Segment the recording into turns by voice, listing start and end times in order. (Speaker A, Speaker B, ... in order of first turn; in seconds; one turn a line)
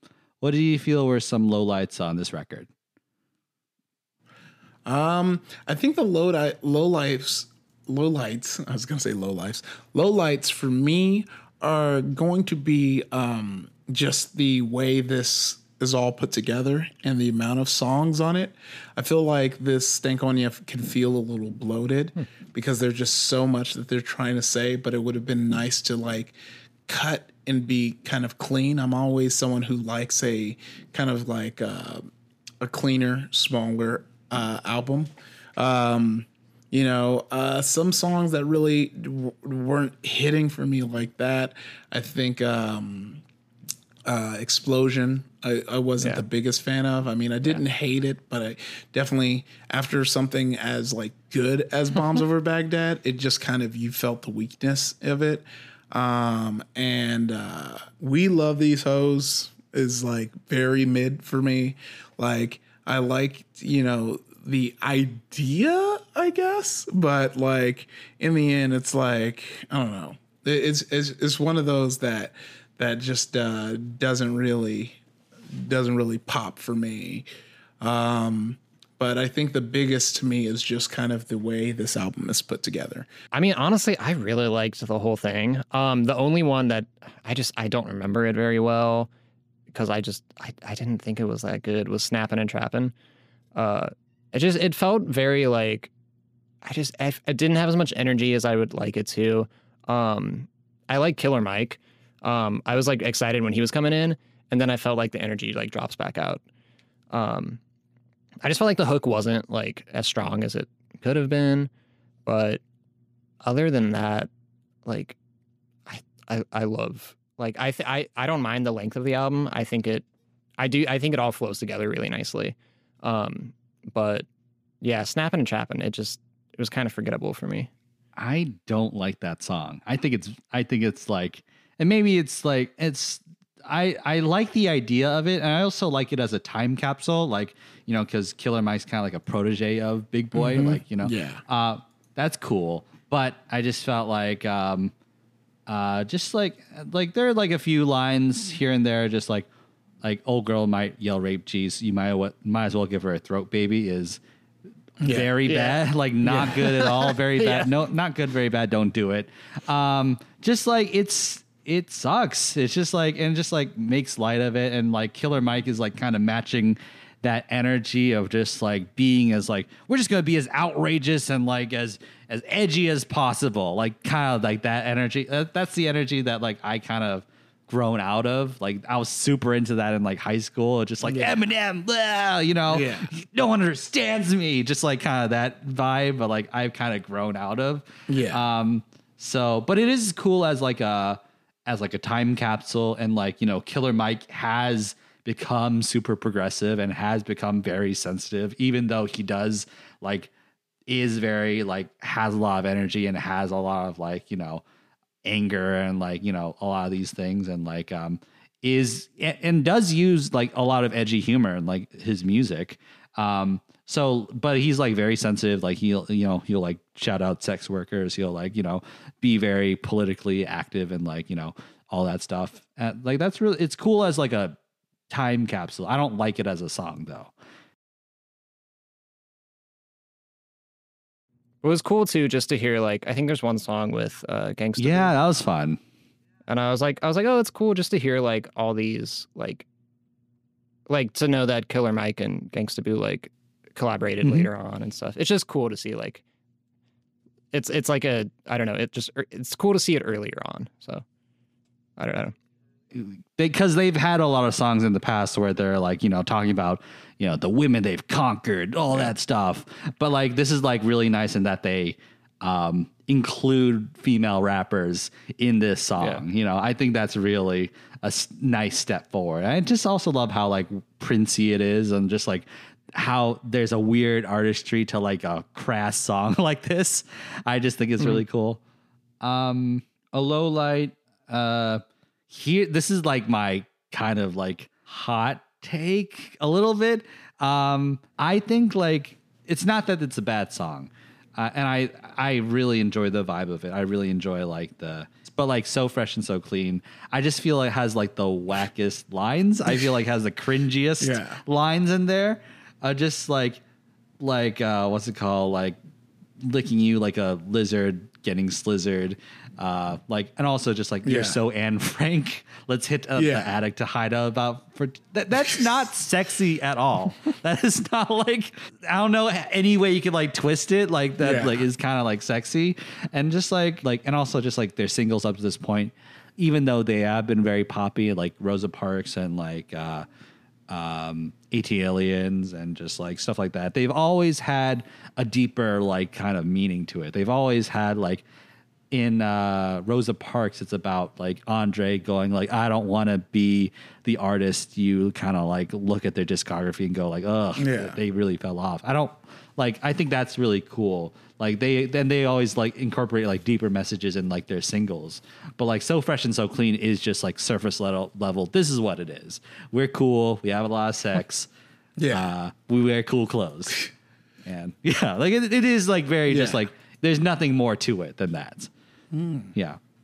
Speaker A: 0.4-2.7
Speaker B: 4.9-26.4
Speaker B: 26.9-32.1
Speaker B: 32.6-43.2
Speaker B: 44.1-77.3
Speaker B: 77.8-83.1
Speaker C: 83.3-89.1
Speaker C: 89.7-92.9
Speaker C: 93.5-95.9
Speaker C: 96.6-106.4
Speaker C: 107.1-107.6
Speaker C: 108.4-111.7
Speaker C: 112.3-112.6
Speaker C: 113.4-114.3
Speaker C: 114.9-115.2
Speaker C: 115.9-120.0
Speaker C: 120.6-124.3
Speaker C: 124.8-127.7
Speaker A: 128.2-144.9
Speaker B: 140.3-141.4
Speaker A: 145.7-149.5
Speaker A: 150.0-154.2
Speaker B: 155.0-155.4
Speaker A: 155.0-200.3
Speaker C: 155.5-155.8
Speaker B: 156.2-157.2
Speaker B: 181.0-181.4
Speaker B: 182.7-183.1
Speaker B: 188.1-188.4
Speaker A: 200.9-204.6
Speaker A: 205.2-224.6
Speaker A: 225.1-227.3
Speaker C: 231.6-235.1
Speaker A: 234.8-235.8
Speaker C: 236.5-239.7
Speaker C: 240.9-246.2
Speaker A: 244.2-244.5
Speaker C: 247.5-251.0
Speaker C: 252.0-252.3
Speaker A: 252.9-278.6
Speaker A: 279.2-303.6
Speaker B: 301.0-301.4
Speaker A: 304.2-305.8
Speaker A: 306.4-330.1
Speaker B: 311.0-311.4
Speaker B: 313.2-313.5
Speaker B: 321.2-321.7
Speaker A: 330.7-338.2
Speaker A: 338.9-361.5
Speaker B: 347.6-348.0
Speaker B: 362.0-362.3
Speaker A: 362.1-363.9
Speaker A: 364.4-368.7
Speaker B: 366.3-366.6
Speaker B: 369.1-369.5
Speaker A: 369.5-369.8